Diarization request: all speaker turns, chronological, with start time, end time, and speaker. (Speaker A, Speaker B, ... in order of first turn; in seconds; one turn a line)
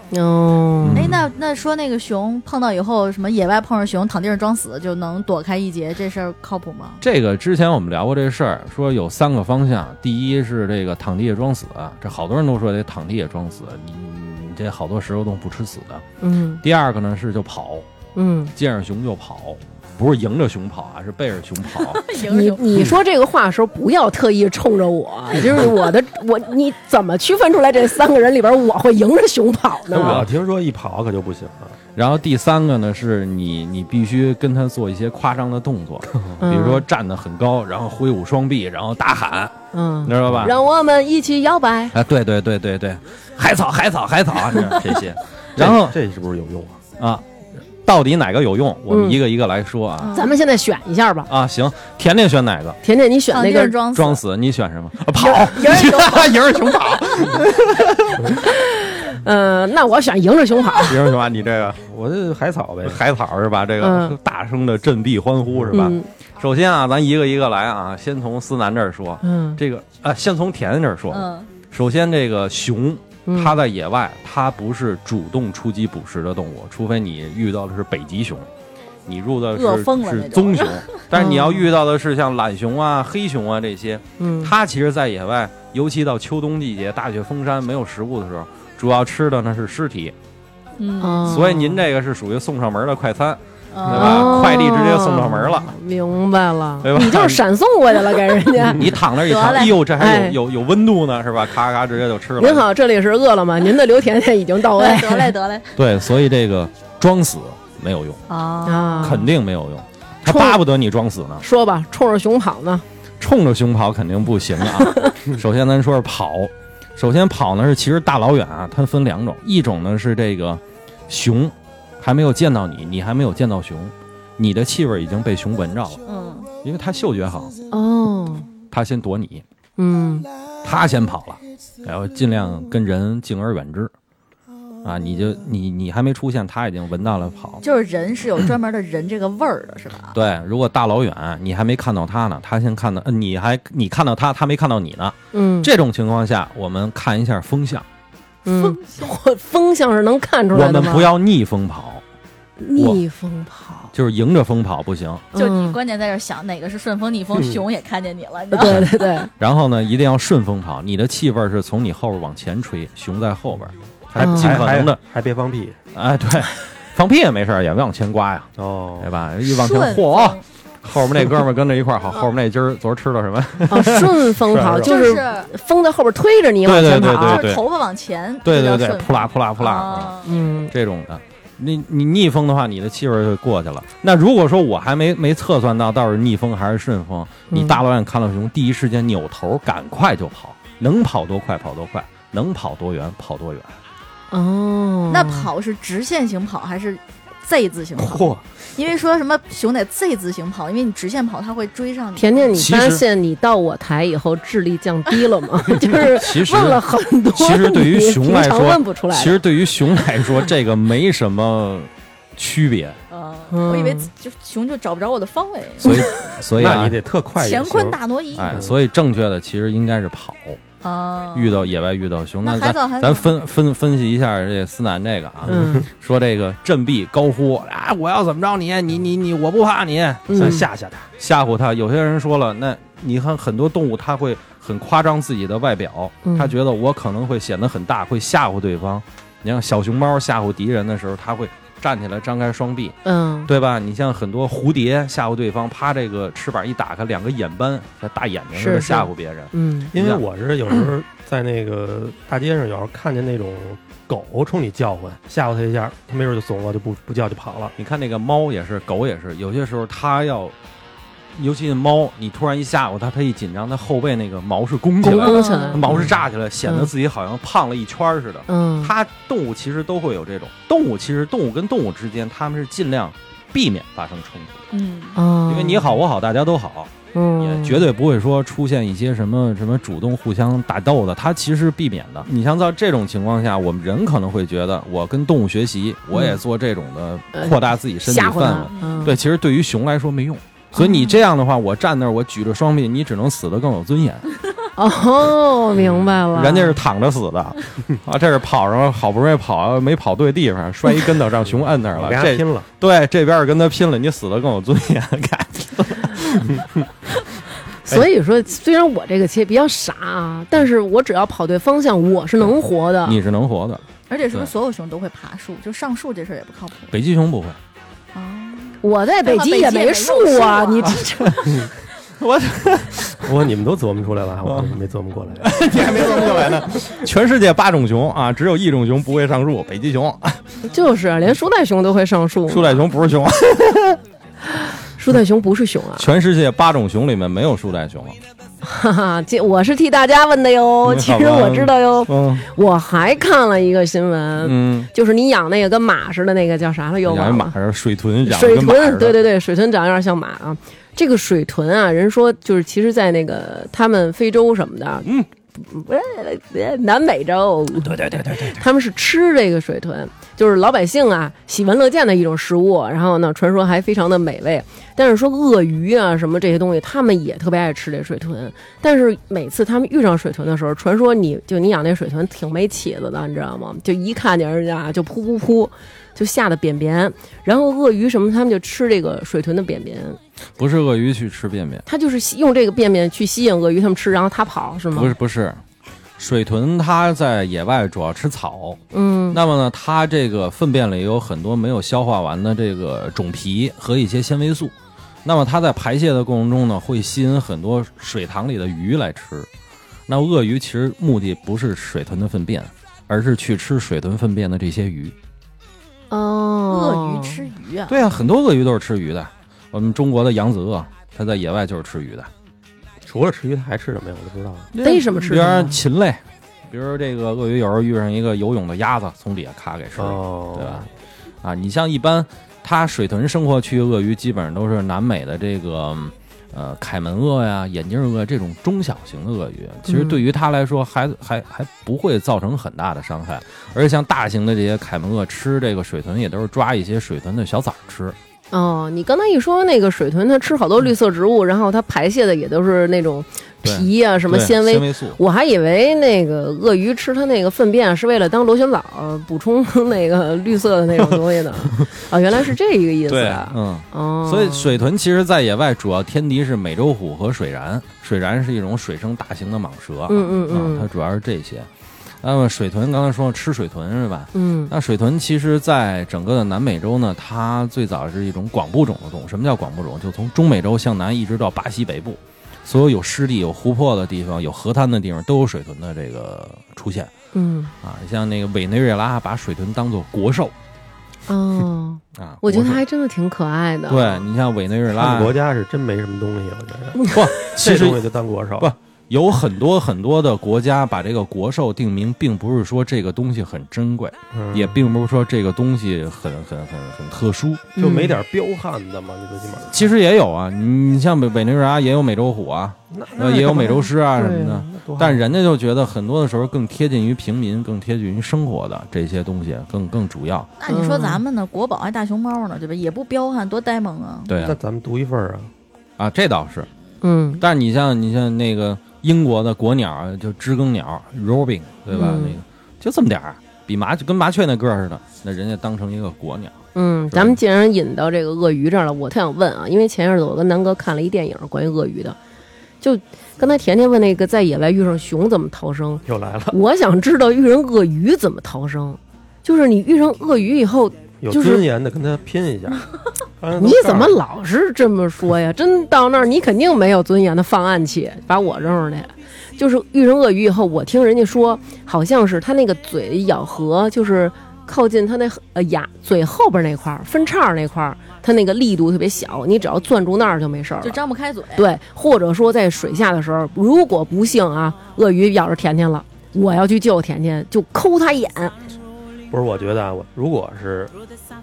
Speaker A: 0.1-1.1
Speaker B: 0.8-1.3
Speaker C: 0.9-7.0
Speaker B: 7.0-16.0
Speaker A: 16.2-16.6
Speaker B: 16.6-17.9
Speaker A: 18.2-18.5
Speaker B: 18.6-22.0
Speaker C: 21.8-22.9
Speaker A: 22.1-30.2
Speaker D: 29.9-31.8
Speaker B: 30.0-30.3
Speaker B: 32.0-40.5
Speaker A: 36.4-36.8
Speaker A: 39.7-42.0
Speaker B: 41.9-46.0
Speaker D: 45.6-46.8
Speaker B: 47.0-47.3
Speaker B: 47.8-50.1
Speaker A: 48.9-49.2
Speaker C: 50.0-50.4
Speaker A: 50.1-51.3
Speaker B: 51.3-52.8
Speaker A: 52.8-53.8
Speaker C: 53.3-54.2
Speaker B: 53.9-58.4
Speaker C: 55.2-56.4
Speaker A: 58.4-61.0
Speaker B: 60.8-61.8
Speaker D: 61.8-63.0
Speaker B: 62.8-78.5
Speaker A: 63.8-64.2
Speaker D: 65.5-65.9
Speaker A: 65.7-66.1
Speaker A: 69.2-69.6
Speaker C: 71.1-71.5
Speaker A: 73.3-73.6
Speaker B: 79.1-90.2
Speaker C: 79.5-81.0
Speaker A: 81.1-81.7
Speaker A: 84.2-84.5
Speaker C: 90.8-91.4
Speaker A: 91.0-91.8
Speaker B: 91.2-95.7
Speaker C: 93.7-94.4
Speaker A: 93.9-99.0
Speaker B: 96.8-97.4
Speaker B: 98.7-102.7
Speaker C: 99.2-99.8
Speaker A: 100.0-100.4
Speaker A: 102.4-105.3
Speaker C: 104.7-105.7
Speaker B: 105.8-108.2
Speaker C: 108.3-109.2
Speaker A: 108.7-109.3
Speaker B: 109.0-111.4
Speaker A: 110.2-110.6
Speaker A: 111.4-112.8
Speaker B: 113.2-126.0
Speaker C: 126.1-126.5
Speaker B: 126.6-127.5
Speaker A: 127.7-128.5
Speaker B: 128.7-129.4
Speaker A: 129.8-130.3
Speaker B: 130.6-133.9
Speaker B: 134.8-137.6
Speaker C: 137.6-140.2
Speaker B: 140.1-147.9
Speaker A: 145.3-145.7
Speaker A: 148.5-151.1
Speaker C: 148.7-149.1
Speaker B: 150.5-152.0
Speaker A: 152.6-153.9
Speaker B: 152.8-153.0
Speaker B: 153.9-155.3
Speaker A: 155.3-155.8
Speaker C: 155.3-159.1
Speaker D: 157.3-157.6
Speaker A: 158.5-159.3
Speaker B: 158.6-158.9
Speaker B: 159.4-165.0
Speaker D: 164.2-165.8
Speaker A: 164.2-164.5
Speaker B: 165.9-174.2
Speaker D: 168.6-169.1
Speaker C: 169.4-170.4
Speaker A: 173.7-177.4
Speaker D: 174.4-175.0
Speaker C: 174.8-175.5
Speaker B: 176.6-177.7
Speaker C: 177.1-180.3
Speaker B: 178.4-193.8
Speaker A: 180.2-180.7
Speaker A: 187.5-187.8
Speaker A: 194.3-195.5
Speaker C: 195.1-202.5
Speaker D: 198.0-198.4
Speaker A: 202.2-209.4
Speaker B: 202.5-203.0
Speaker B: 205.9-213.0
Speaker C: 213.1-216.1
Speaker A: 213.5-214.1
Speaker B: 215.8-217.0
Speaker D: 216.5-218.0
Speaker C: 217.4-218.6
Speaker B: 218.3-220.6
Speaker C: 220.8-221.7
Speaker B: 221.3-230.7
Speaker C: 222.4-223.3
Speaker A: 225.5-225.9
Speaker A: 230.3-230.7
Speaker D: 230.3-231.1
Speaker B: 231.2-250.2
Speaker A: 236.2-236.6
Speaker A: 243.1-243.5
Speaker A: 248.6-249.9
Speaker D: 249.9-257.7
Speaker B: 257.8-260.6
Speaker B: 261.3-274.6
Speaker A: 265.0-266.1
Speaker C: 265.1-265.9
Speaker A: 268.5-268.9
Speaker C: 274.7-275.2
Speaker A: 275.2-276.0
Speaker B: 275.5-294.3
Speaker A: 277.1-277.9
Speaker A: 286.1-286.4
Speaker A: 287.3-289.1
Speaker C: 288.7-289.1
Speaker A: 290.8-291.1
Speaker A: 294.8-296.8
Speaker B: 296.3-306.6
Speaker D: 301.5-302.7
Speaker A: 307.9-313.2
Speaker B: 313.1-314.5
Speaker C: 314.1-316.9
Speaker B: 316.9-317.6
Speaker C: 318.1-321.3
Speaker A: 318.8-321.6
Speaker B: 322.2-323.3
Speaker D: 323.2-325.6
Speaker B: 324.4-324.8
Speaker B: 325.4-330.4
Speaker A: 330.7-332.9
Speaker B: 332.5-334.0
Speaker A: 334.6-336.1
Speaker B: 336.0-338.2
Speaker A: 338.6-347.6
Speaker B: 340.8-342.5
Speaker B: 344.4-344.9
Speaker B: 347.0-349.2
Speaker A: 348.2-380.2
Speaker B: 357.8-358.6
Speaker B: 380.6-381.9
Speaker A: 381.9-385.1
Speaker B: 384.9-385.6
Speaker B: 386.2-394.7
Speaker A: 388.9-389.4
Speaker B: 395.2-399.5
Speaker B: 400.1-405.1
Speaker A: 406.1-407.4
Speaker C: 406.7-408.0
Speaker B: 407.9-412.3
Speaker D: 413.1-414.7
Speaker B: 414.7-420.9
Speaker A: 414.8-415.8
Speaker D: 420.0-420.9
Speaker B: 421.4-438.2
Speaker A: 429.9-430.2
Speaker A: 438.5-454.8
Speaker B: 443.6-445.2
Speaker B: 453.1-461.7
Speaker A: 460.1-460.9
Speaker B: 462.2-477.1
Speaker A: 464.3-464.7
Speaker A: 477.3-477.7
Speaker B: 477.8-480.5
Speaker A: 481.3-484.2
Speaker B: 482.2-482.8
Speaker B: 483.9-485.4
Speaker D: 484.9-488.7
Speaker B: 487.1-488.1
Speaker B: 488.6-497.7
Speaker D: 494.3-494.8
Speaker A: 497.8-498.2
Speaker D: 497.8-499.9
Speaker B: 499.7-510.5
Speaker D: 502.9-503.9
Speaker A: 504.1-504.6
Speaker D: 504.7-505.2
Speaker C: 510.6-514.4
Speaker A: 510.7-511.2
Speaker B: 514.3-514.6
Speaker D: 514.4-515.5
Speaker B: 516.0-516.7
Speaker A: 517.0-517.4
Speaker B: 517.4-526.5
Speaker A: 521.9-522.4
Speaker A: 526.8-532.2
Speaker B: 527.1-527.4
Speaker A: 532.8-541.6
Speaker D: 536.1-536.6
Speaker D: 541.2-542.9
Speaker D: 543.4-544.2
Speaker A: 543.6-561.0
Speaker C: 560.8-561.7
Speaker A: 561.6-568.5
Speaker D: 569.3-570.9